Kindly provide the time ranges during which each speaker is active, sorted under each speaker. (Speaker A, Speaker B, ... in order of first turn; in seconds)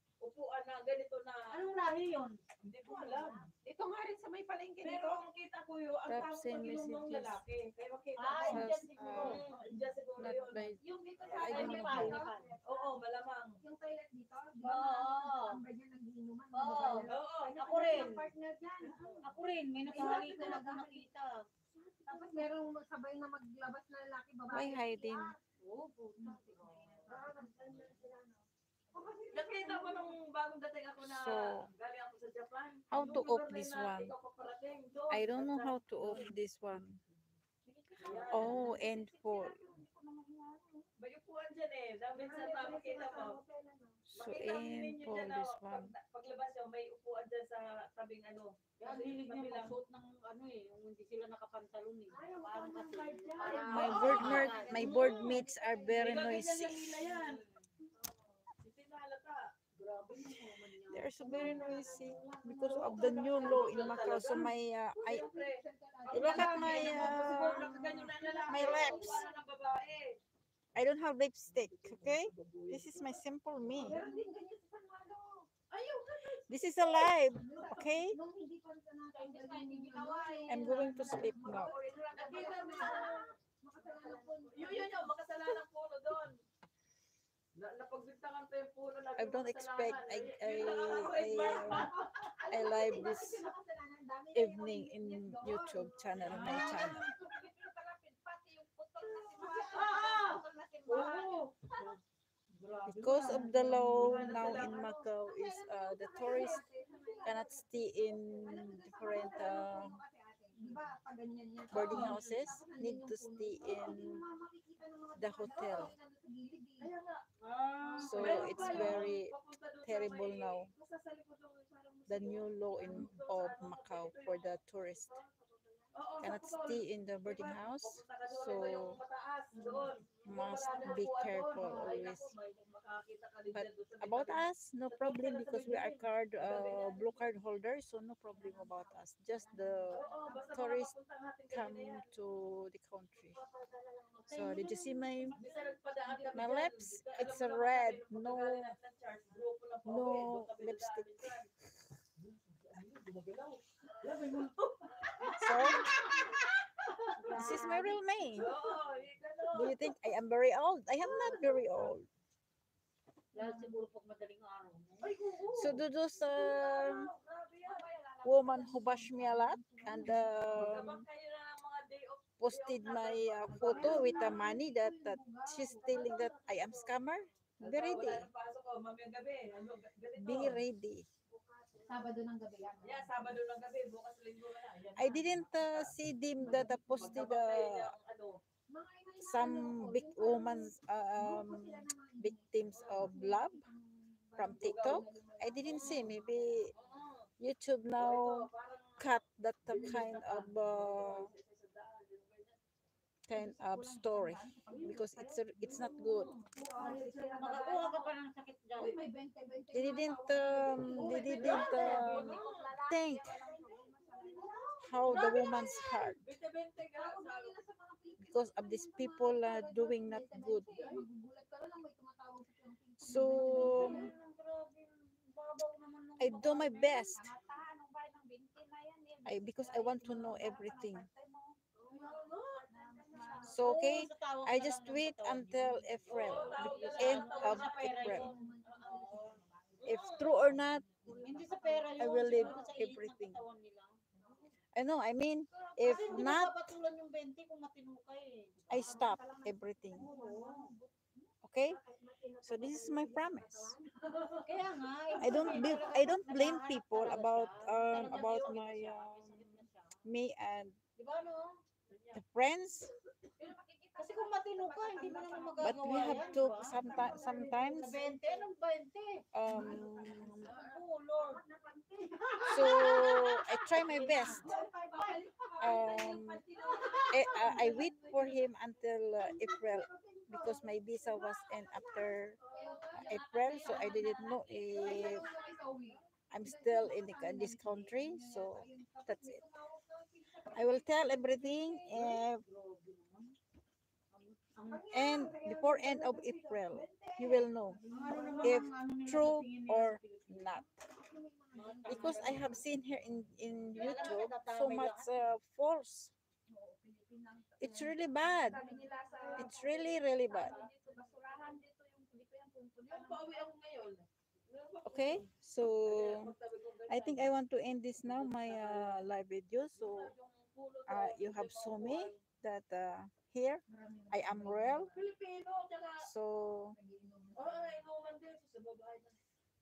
Speaker A: 0.2-1.8, 2.6-3.5, 4.8-10.7, 11.3-13.5, 17.0-18.2, 21.7-22.3, 29.3-36.3, 38.0-38.8, 41.0-43.4, 44.2-49.8, 52.9-55.2, 55.9-57.4, 58.6-59.5, 62.7-64.5, 65.0-70.2, 71.5-74.2, 75.7-77.1, 81.2-83.3, 84.5-86.4, 87.5-92.4, 96.3-96.9, 99.4-99.8, 100.8-101.6, 103.8-105.0, 111.9-112.2, 116.8-117.2, 118.1-125.3, 125.9-137.3, 139.9-142.1, 145.3-151.5, 152.2-156.1, 157.0-157.7, 158.3-159.8, 161.0-161.9, 165.0-167.8, 170.5-174.4, 175.8-177.0, 177.6-180.6, 182.8-185.9, 186.4-188.4, 192.7-193.1, 194.5-195.1, 195.6-196.1, 196.7-197.3, 198.0-199.1, 199.7-202.6, 206.7-208.0, 210.9-212.8, 215.1-217.5, 220.8-221.0, 223.7-224.1, 231.9-233.6, 236.1-240.4, 261.9-262.2, 270.3-270.8, 282.4-282.8, 308.7-311.6, 312.9-315.3, 315.8-317.3, 318.0-319.1, 319.8-322.2, 324.9-326.1, 327.4-329.2
Speaker B: 1.5-2.4, 3.0-3.4, 8.2-9.4, 11.3-12.6, 14.6-15.6, 16.5-18.3, 19.0-21.3, 25.6-27.9, 37.7-38.9, 48.8-55.4, 56.8-57.7, 59.8-62.1, 66.6-68.2, 79.1-81.3, 82.1-85.0, 96.2-97.1, 99.0-100.4, 101.7-102.0, 102.6-104.8, 106.2-107.3, 110.6-110.8, 111.7-112.4, 117.4-119.1, 143.2-144.9, 154.0-154.5, 155.1-158.0, 163.3-165.1, 173.5-174.1, 181.5-182.0, 204.7-209.1, 210.9-215.7, 223.2-227.6, 230.0-230.7, 231.7-232.3, 233.4-239.4, 241.2-244.0, 245.8-249.2, 249.9-250.7, 254.4-260.1, 261.0-261.6, 264.0-271.4, 272.0-275.3, 276.5-277.8, 282.4-286.0, 291.9-293.3, 294.1-294.9, 297.9-300.6, 301.5-302.6, 303.7-305.3, 308.5-309.4
Speaker C: 3.6-5.2, 10.8-13.0, 13.6-19.3, 19.8-21.0, 22.1-25.3, 26.2-30.2, 33.0-33.2, 37.8-40.8, 42.1-44.0, 52.1-56.4, 61.1-64.4, 64.9-69.4, 73.8-75.5, 77.3-85.1, 91.4-101.9, 105.2-107.6, 108.4-116.9, 117.8-118.9, 122.9-123.1, 129.5-129.9, 130.5-132.1, 138.3-140.8, 144.3-146.5, 155.3-156.2, 157.3-157.8, 163.4-163.8, 167.6-170.8, 173.6-176.1, 177.6-178.0, 181.9-183.4, 186.4-187.3, 188.7-196.7, 203.3-205.4, 206.4-208.1, 208.8-216.1, 216.9-224.1, 227.2-233.7, 236.5-242.9, 244.1-244.5, 245.5-246.4, 248.7-256.3, 263.4-267.8, 269.4-270.5, 271.2-278.4, 279.2-284.1, 284.7-292.1, 294.7-298.6, 300.9-302.8, 306.5-313.4, 323.7-325.0, 326.7-327.9
Speaker D: 6.1-7.4, 8.5-9.4, 10.2-12.2, 24.5-25.3, 31.0-31.7, 32.9-34.1, 35.1-37.0, 38.3-39.6, 44.1-45.9, 53.7-57.1, 60.9-65.2, 66.1-69.2, 70.7-74.0, 76.5-78.2, 80.5-81.7, 89.2-91.9, 92.5-93.5, 94.3-97.0, 102.8-106.7, 107.2-110.0, 111.7-114.2, 115.2-115.9, 118.0-119.3, 119.8-120.7, 122.1-125.2, 126.2-129.0, 130.2-132.3, 133.5-140.9, 141.5-143.4, 144.3-145.3, 146.3-148.7, 149.8-151.3, 155.3-155.9, 157.3-158.5, 159.5-162.1, 165.5-167.1, 168.2-171.0, 172.4-178.3, 180.2-181.1, 184.9-187.9, 189.2-193.7, 194.4-196.7, 197.4-201.3, 203.3-206.3, 209.7-213.4, 214.8-216.2, 218.2-220.7, 223.0-224.1, 226.2-227.2, 229.2-231.1, 233.5-238.3, 239.8-241.4, 242.0-243.4, 244.7-246.6, 248.7-250.1, 251.4-251.8, 252.4-253.7, 255.2-260.8, 262.1-262.9, 265.6-268.2, 269.3-270.5, 272.5-274.5, 275.6-276.4, 277.1-282.4, 283.1-285.3, 286.3-289.4, 290.5-292.4, 294.9-297.8, 298.4-300.6, 301.8-306.1, 307.6-308.6, 309.3-310.5, 314.8-316.3, 316.9-320.1, 320.9-324.9, 326.0-326.8